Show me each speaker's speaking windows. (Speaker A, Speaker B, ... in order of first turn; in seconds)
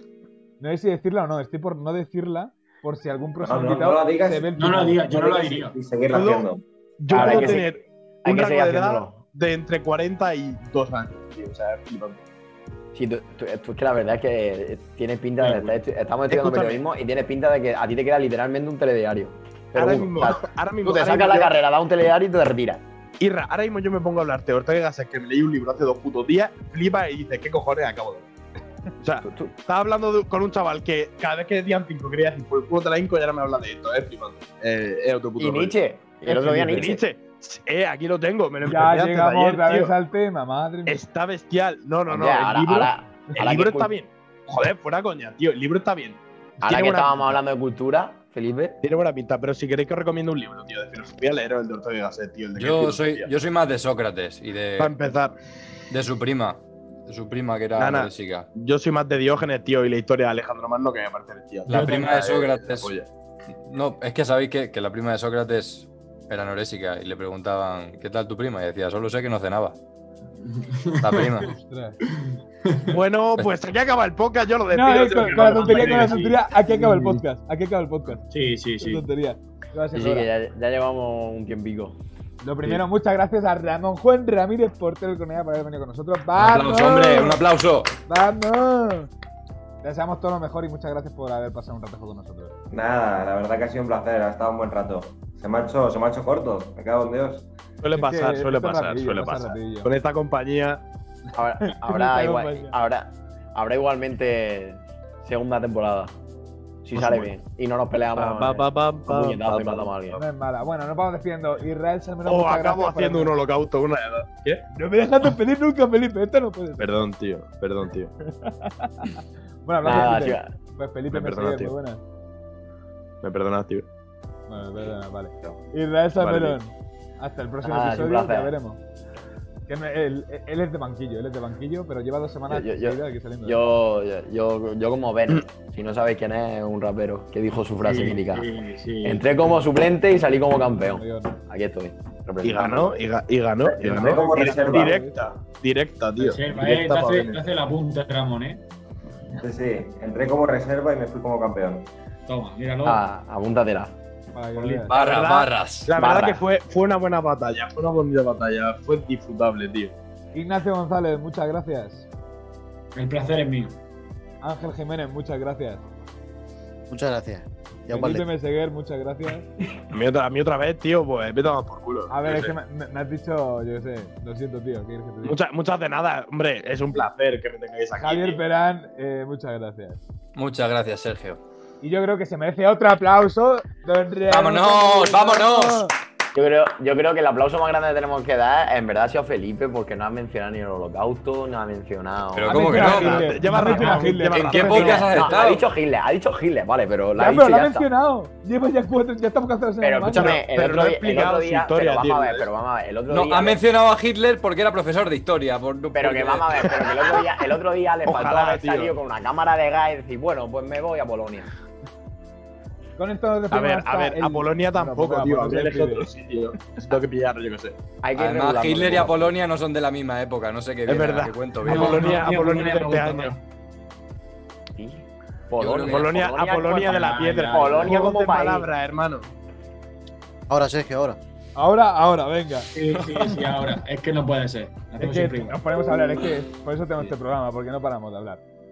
Speaker A: 0.6-5.4, 36.2-37.0, 38.6-41.0, 71.4-72.0, 74.7-78.2, 78.8-80.3, 82.4-87.4, 88.1-89.1, 89.8-92.5, 97.9-99.9, 101.7-102.8, 110.2-113.3, 114.7-117.0, 118.2-122.0, 124.5-128.8, 129.7-133.7, 140.8-141.3, 144.0-145.2, 154.3-154.9, 160.3-162.1, 164.4-165.8, 167.9-169.5, 172.1-175.3, 178.0-180.0, 181.8-185.9, 192.5-195.1, 197.2-200.4, 213.0-216.1, 231.6-232.7, 235.0-238.4
Speaker B: 3.4-4.5, 5.1-6.6, 92.7-97.5, 144.0-145.0, 149.4-151.9
Speaker C: 4.6-5.8, 15.4-15.8, 61.7-62.1, 70.4-71.5, 72.1-73.0, 75.5-76.4, 78.2-79.0, 137.8-139.6, 146.2-148.6, 152.3-153.0, 162.9-163.8, 193.4-194.2, 221.6-223.4, 226.9-228.0, 232.8-235.6
Speaker D: 6.1-12.2, 16.3-16.8, 19.7-21.5, 23.2-28.3, 29.0-35.8, 36.8-40.0, 40.9-47.4, 48.8-53.3, 54.8-55.4, 57.8-63.1, 72.9-76.3, 97.8-100.8, 106.9-107.3, 108.1-110.2, 112.2-114.6, 116.8-118.1, 121.1-121.7, 123.2-123.9, 126.2-126.6, 142.4-147.5, 154.6-159.9, 169.9-172.5, 175.2-178.4, 192.8-195.3, 200.1-202.5, 208.1-208.9, 213.5-217.8, 220.9-223.3, 225.8-229.3
Speaker E: 7.1-7.7, 8.2-9.2, 12.9-22.8, 29.2-29.6, 35.4-37.1, 42.1-43.9, 46.6-48.8, 79.9-82.0, 101.3-106.1, 106.8-110.2, 119.8-120.5, 127.6-128.5, 132.5-138.5, 139.0-143.0, 143.7-144.3, 152.8-154.0, 155.9-156.4, 186.3-192.9, 194.6-197.9, 199.8-203.6, 205.9-211.5, 218.0-219.4, 224.8-228.7
Speaker F: 52.6-55.0, 55.9-58.5, 61.7-62.9, 63.6-69.8, 71.0-71.5, 86.3-87.9, 154.9-155.9, 180.3-181.4, 184.3-185.9, 192.3-193.4, 194.2-195.7, 203.1-206.7, 218.2-222.2, 225.6-226.1
Speaker G: 166.9-168.3, 230.5-231.2